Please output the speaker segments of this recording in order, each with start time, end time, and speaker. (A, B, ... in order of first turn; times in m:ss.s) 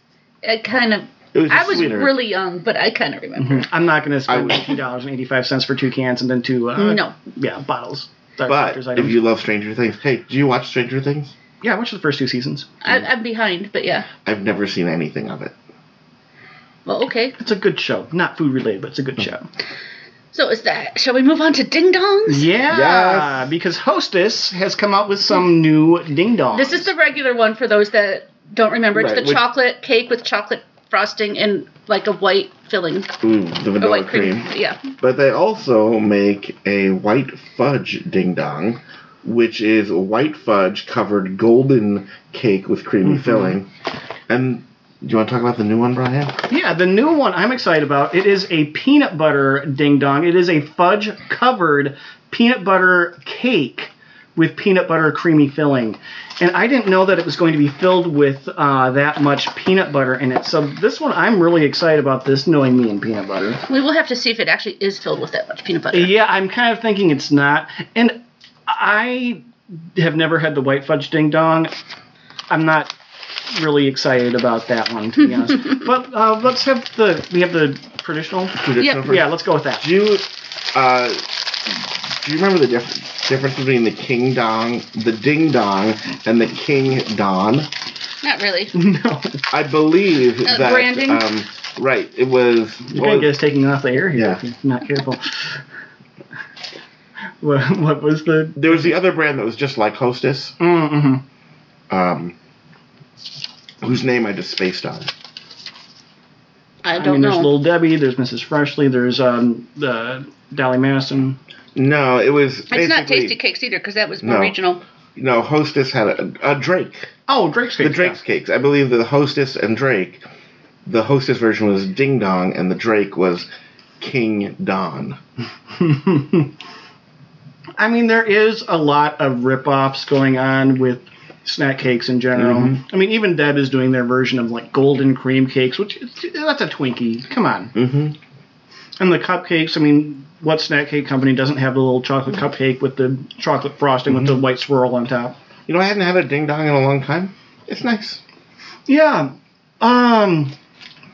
0:00.4-0:03.7 A
0:01.3-0:02.2 B
0:03.4-0:09.2 C
0:04.3-0:04.8 B
0:06.8-0:07.1 A
0:08.4-0:11.3 B
0:11.6-0:12.7 C
0:12.8-0:14.1 A
0:14.2-0:15.5 B
0:16.8-0:17.4 A
0:17.4-0:19.5 C
0:20.3-0:22.5 A
0:22.3-0:26.9 C
0:22.7-0:23.4 B
0:26.5-0:33.1 A
0:28.9-0:29.4 B
0:33.2-0:43.7 B
0:33.8-0:34.8 A
0:43.0-0:43.6 C
0:44.3-0:46.4 B
0:46.5-1:03.6 C
1:03.7-1:06.1 A
1:05.9-1:11.7 C
1:12.5-1:12.9 C
1:13.5-1:19.9 C
1:18.6-1:27.7 B
1:18.8-1:19.1 A
1:28.2-1:28.7 A
1:28.7-1:29.4 C
1:29.5-1:33.4 B
1:30.4-1:31.2 A
1:32.9-1:35.6 C
1:34.1-1:34.4 B
1:37.4-1:38.9 C
1:38.6-1:40.6 B
1:40.6-1:41.2 C
1:41.9-1:42.3 B
1:43.8-1:45.1 B
1:46.8-1:47.6 A
1:46.9-1:51.4 C
1:51.7-1:53.4 B
1:52.7-1:54.8 A
1:54.2-1:54.5 B
1:55.2-1:57.1 B
1:57.3-1:58.2 C
1:57.8-2:00.2 B
2:00.8-2:03.5 B
2:04.0-2:05.2 B
2:05.8-2:06.5 C
2:07.8-2:17.7 C
2:12.4-2:12.8 B
2:17.7-2:18.2 B
2:19.0-2:25.4 C
2:24.1-2:24.4 B
2:25.7-2:28.2 B
2:28.9-2:30.5 C